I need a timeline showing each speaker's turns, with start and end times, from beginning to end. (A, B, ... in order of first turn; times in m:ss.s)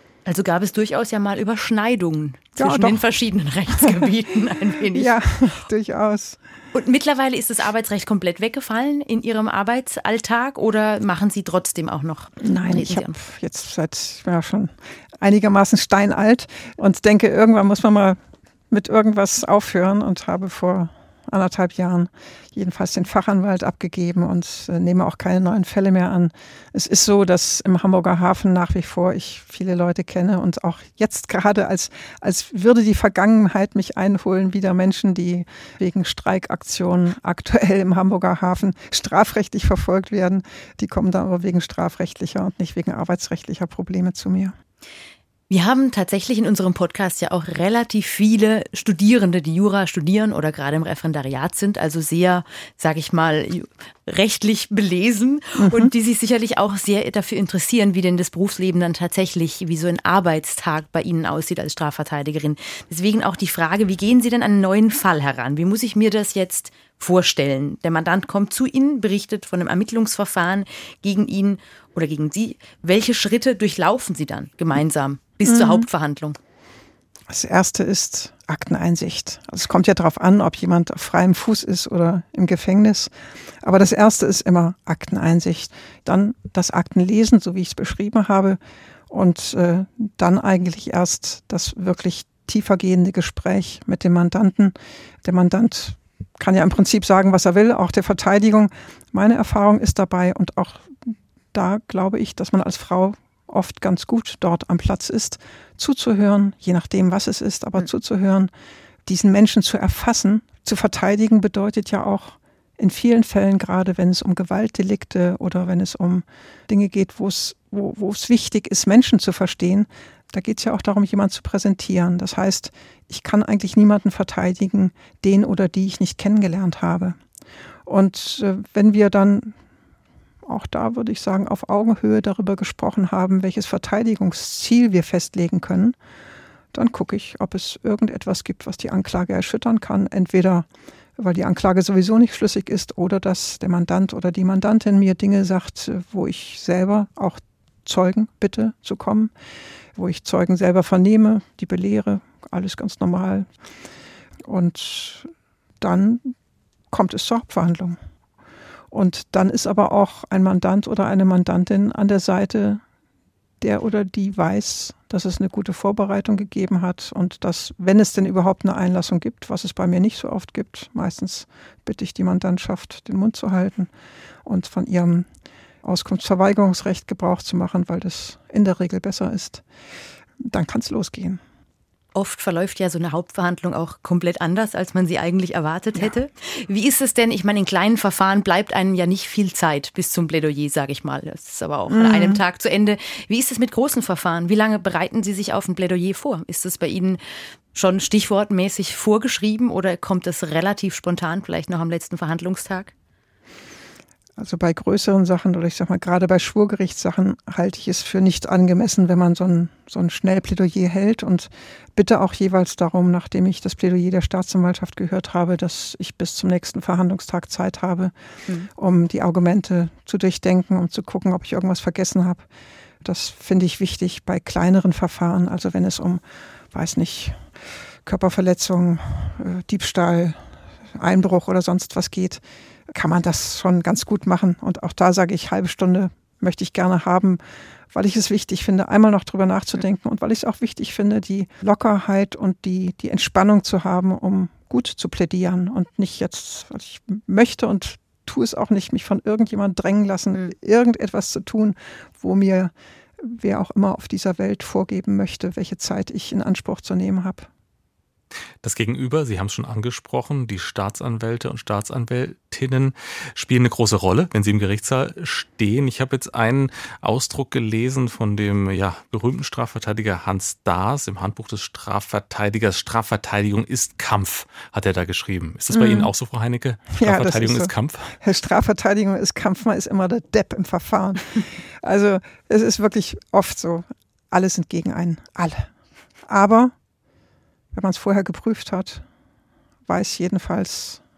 0:00.2-0:05.1 A
0:02.6-0:03.0 B
0:04.9-0:06.4 B
0:06.7-0:13.2 A
0:12.4-0:18.2 B
0:18.7-0:44.5 B
0:45.5-1:16.4 A
0:55.6-0:55.9 B
1:15.4-1:15.8 B
1:17.3-1:23.1 B
1:23.6-1:28.6 B
1:29.1-1:48.5 B
1:49.0-2:07.2 B
2:07.8-2:09.5 B
2:10.4-2:15.9 B
2:16.7-2:29.3 B
2:30.0-2:33.5 B
2:34.4-2:36.3 B
2:36.9-2:38.0 B
2:38.9-2:42.8 B
2:43.6-2:53.9 B
2:54.4-2:55.3 B
2:55.8-2:59.6 B
3:00.4-3:01.4 B
3:02.1-3:17.2 A
3:11.9-3:12.4 B
3:17.7-3:22.9 A
3:24.4-3:38.1 B
3:38.7-3:42.4 B
3:43.0-3:47.4 B
3:48.0-3:50.4 B
3:50.9-3:57.4 B
3:57.9-4:17.5 B
4:18.6-4:38.2 C
4:35.7-4:36.1 B
4:37.0-4:45.7 B
4:46.3-4:46.7 B
4:47.7-4:49.0 B
4:49.8-4:51.0 B